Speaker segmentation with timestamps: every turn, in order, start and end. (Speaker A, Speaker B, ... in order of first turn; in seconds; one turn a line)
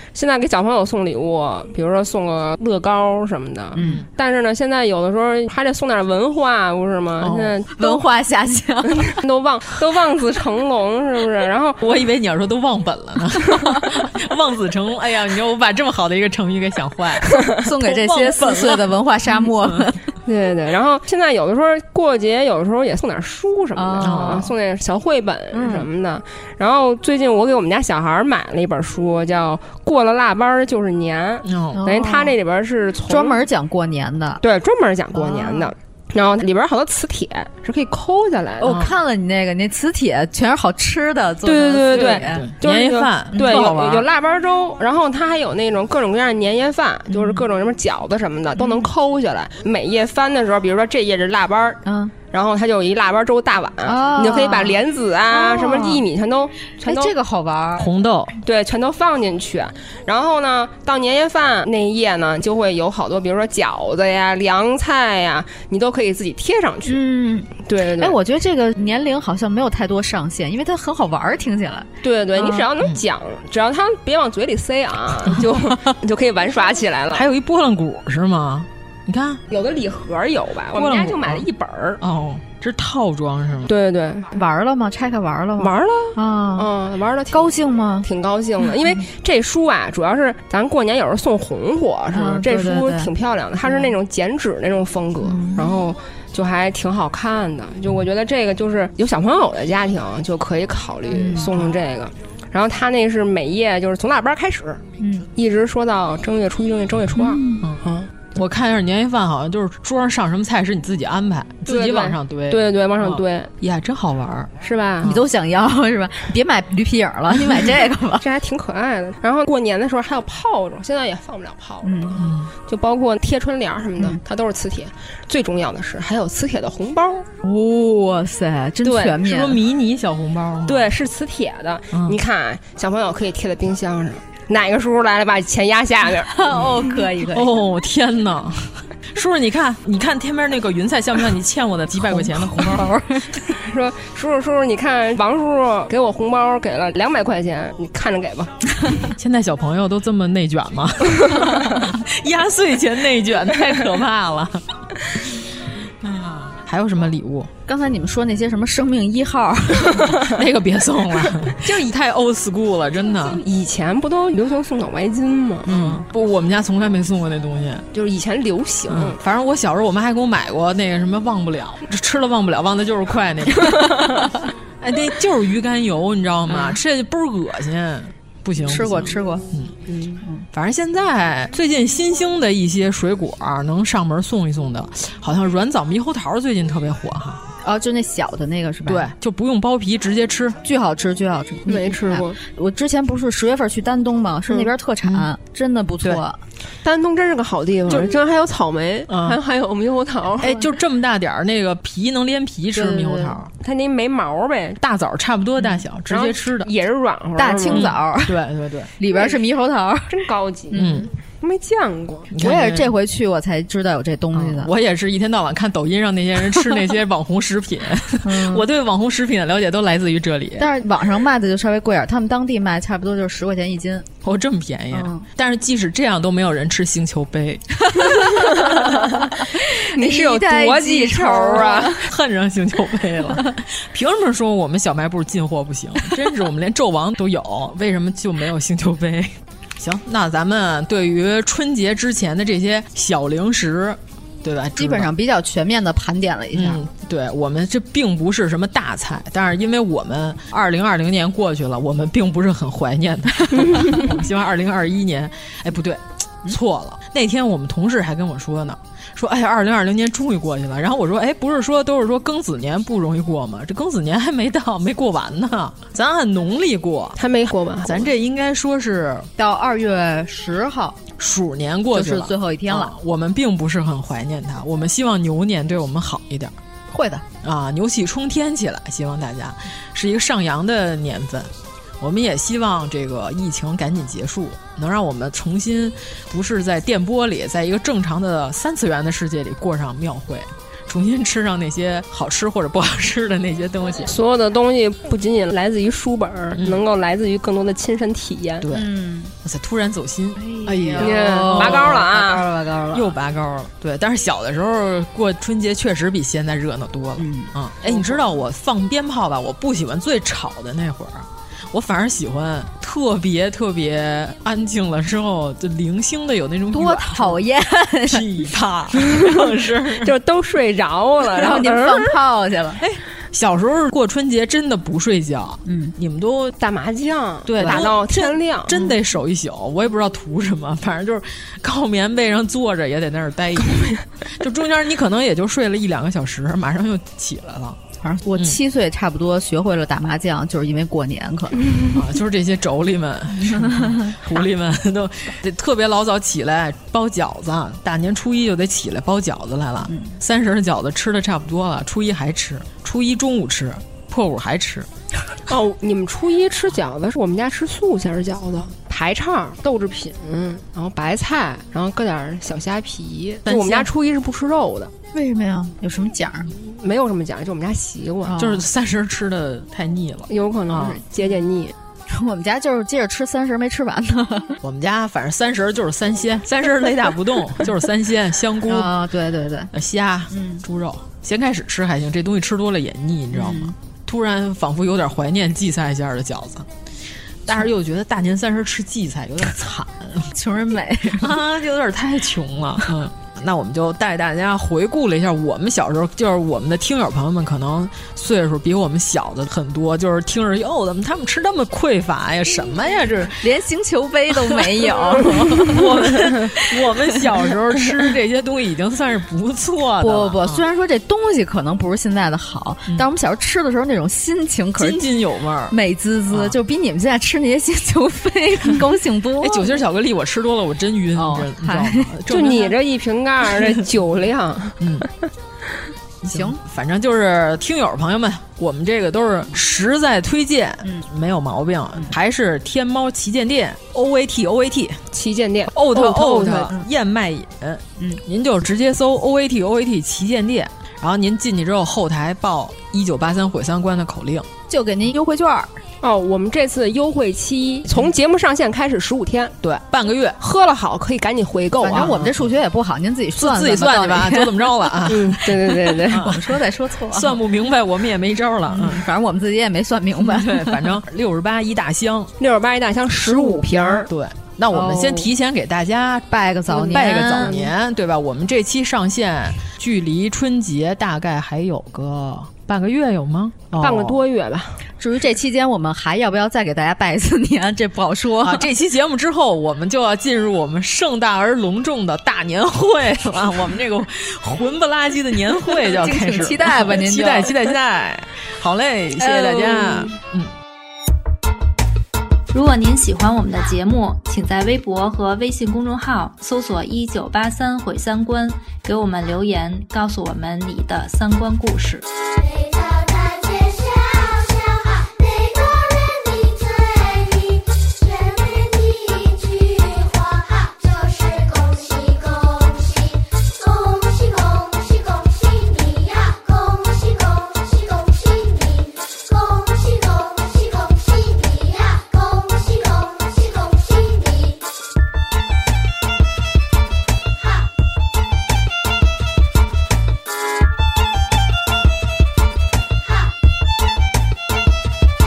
Speaker A: 0.1-8.1
Speaker B: 3.8-4.0
Speaker C: 3.8-4.1
Speaker C: 7.2-7.6
Speaker B: 7.8-9.2
Speaker A: 8.9-11.8
Speaker C: 11.8-18.9
Speaker B: 17.6-20.0
Speaker C: 19.6-19.9
Speaker A: 20.3-33.4
Speaker B: 23.8-24.4
Speaker C: 24.0-24.5
Speaker B: 25.5-25.9
Speaker C: 31.4-31.8
Speaker B: 31.7-32.3
Speaker B: 33.1-34.4
Speaker A: 34.4-38.7
Speaker B: 35.2-35.7
Speaker B: 38.6-42.4
Speaker C: 38.6-38.9
Speaker A: 41.5-57.1
Speaker C: 42.1-44.0
Speaker B: 43.3-44.0
Speaker B: 47.1-47.4
Speaker B: 48.6-48.9
Speaker B: 51.9-52.1
Speaker B: 53.9-54.8
Speaker B: 55.3-56.0
Speaker B: 56.8-57.9
Speaker C: 57.8-58.3
Speaker A: 58.4-67.0
Speaker B: 66.9-72.7
Speaker A: 67.7-68.2
Speaker A: 72.0-77.3
Speaker C: 77.1-79.4
Speaker A: 79.5-82.0
Speaker C: 80.7-81.5
Speaker C: 82.0-83.7
Speaker A: 83.7-84.4
Speaker B: 84.3-86.7
Speaker A: 85.6-108.1
Speaker B: 87.3-88.1
Speaker B: 92.1-93.1
Speaker B: 93.6-93.9
Speaker B: 95.2-95.8
Speaker B: 101.1-101.5
Speaker B: 105.0-105.3
Speaker B: 107.2-107.6
Speaker C: 107.6-114.5
Speaker A: 111.7-113.5
Speaker A: 114.6-115.2
Speaker B: 115.0-118.2
Speaker A: 118.2-127.3
Speaker B: 121.8-122.2
Speaker C: 122.2-122.5
Speaker B: 127.4-129.6
Speaker A: 128.8-129.2
Speaker C: 129.2-130.9
Speaker A: 130.7-136.4
Speaker C: 131.9-132.2
Speaker B: 136.3-137.6
Speaker C: 137.3-142.9
Speaker B: 142.0-143.4
Speaker A: 143.5-148.5
Speaker C: 149.1-154.6
Speaker C: 156.0-157.5
Speaker B: 157.7-160.2
Speaker C: 160.2-163.4
Speaker A: 163.4-166.0
Speaker C: 165.7-167.8
Speaker A: 167.9-169.2
Speaker C: 168.9-174.1
Speaker C: 174.8-179.9
Speaker B: 178.6-179.4
Speaker C: 180.5-187.4
Speaker B: 187.6-189.1
Speaker C: 188.9-190.6
Speaker B: 190.6-196.4
Speaker A: 191.7-192.4
Speaker A: 196.8-200.6
Speaker C: 199.1-199.4
Speaker C: 200.4-203.5
Speaker B: 202.7-203.4
Speaker A: 203.6-204.8
Speaker C: 204.8-206.7
Speaker A: 206.1-208.0
Speaker B: 207.4-208.4
Speaker C: 207.7-208.9
Speaker B: 209.0-210.1
Speaker A: 209.1-209.4
Speaker A: 210.1-212.3
Speaker C: 210.7-211.1
Speaker C: 212.3-212.9
Speaker B: 212.4-214.7
Speaker C: 214.3-220.7
Speaker B: 218.2-218.7
Speaker B: 220.6-224.1
Speaker C: 224.2-227.8
Speaker B: 224.9-225.3
Speaker B: 227.9-228.9
Speaker A: 228.6-229.0
Speaker B: 229.4-232.0
Speaker A: 229.9-232.0
Speaker C: 231.8-245.1
Speaker B: 244.8-246.8
Speaker C: 246.5-267.2
Speaker A: 267.2-268.1
Speaker C: 267.8-269.3
Speaker B: 269.4-271.0
Speaker C: 271.2-276.5
Speaker B: 271.9-272.9
Speaker B: 276.9-277.2
Speaker C: 277.4-294.1
Speaker A: 294.1-298.7
Speaker C: 296.6-296.8
Speaker C: 298.6-298.9
Speaker B: 298.7-299.3
Speaker C: 299.4-302.1
Speaker B: 300.4-303.1
Speaker A: 301.0-302.4
Speaker C: 302.9-317.4
Speaker B: 307.2-307.5
Speaker B: 316.7-318.2
Speaker C: 318.1-320.1
Speaker A: 320.0-322.2
Speaker B: 321.4-322.8
Speaker C: 322.8-326.6
Speaker B: 325.7-325.9
Speaker A: 326.6-328.7
Speaker C: 327.4-337.8
Speaker B: 338.0-341.7
Speaker C: 341.9-354.9
Speaker B: 343.4-344.1
Speaker A: 355.5-364.9
Speaker C: 363.4-363.9
Speaker B: 365.1-366.6
Speaker A: 366.7-368.4
Speaker B: 368.3-368.6
Speaker C: 368.4-371.0
Speaker A: 370.3-371.7
Speaker B: 372.1-374.6
Speaker C: 374.6-379.0
Speaker B: 378.7-379.7
Speaker C: 379.7-386.7
Speaker B: 380.3-380.6
Speaker B: 383.3-383.7
Speaker C: 387.4-390.3
Speaker B: 390.3-391.4
Speaker C: 391.2-403.4
Speaker B: 403.4-405.8
Speaker C: 404.6-410.6
Speaker B: 410.0-415.0
Speaker C: 414.8-415.8
Speaker B: 415.7-419.8
Speaker C: 416.3-416.6
Speaker C: 419.4-422.8
Speaker B: 421.2-422.1
Speaker A: 422.3-424.8
Speaker C: 424.8-425.1
Speaker C: 426.2-435.0
Speaker B: 426.3-426.6
Speaker A: 435.1-436.7
Speaker C: 435.7-444.5
Speaker B: 444.7-445.7
Speaker A: 446.0-449.6
Speaker C: 449.6-450.4
Speaker A: 450.4-452.2
Speaker B: 451.8-454.9
Speaker C: 451.9-452.5
Speaker C: 453.4-459.1
Speaker A: 455.1-456.3
Speaker B: 456.2-457.4
Speaker B: 458.7-461.0
Speaker C: 460.2-462.3
Speaker A: 462.4-464.1
Speaker B: 463.2-463.9
Speaker C: 463.7-474.2
Speaker B: 464.7-465.3
Speaker B: 466.3-467.6
Speaker A: 466.8-467.6
Speaker A: 473.8-474.8
Speaker B: 475.0-478.7
Speaker C: 478.4-490.5
Speaker B: 485.9-487.7
Speaker B: 489.2-490.1
Speaker D: 492.5-502.0
Speaker E: 502.2-524.7
Speaker E: 527.4-527.7
Speaker E: 533.0-533.3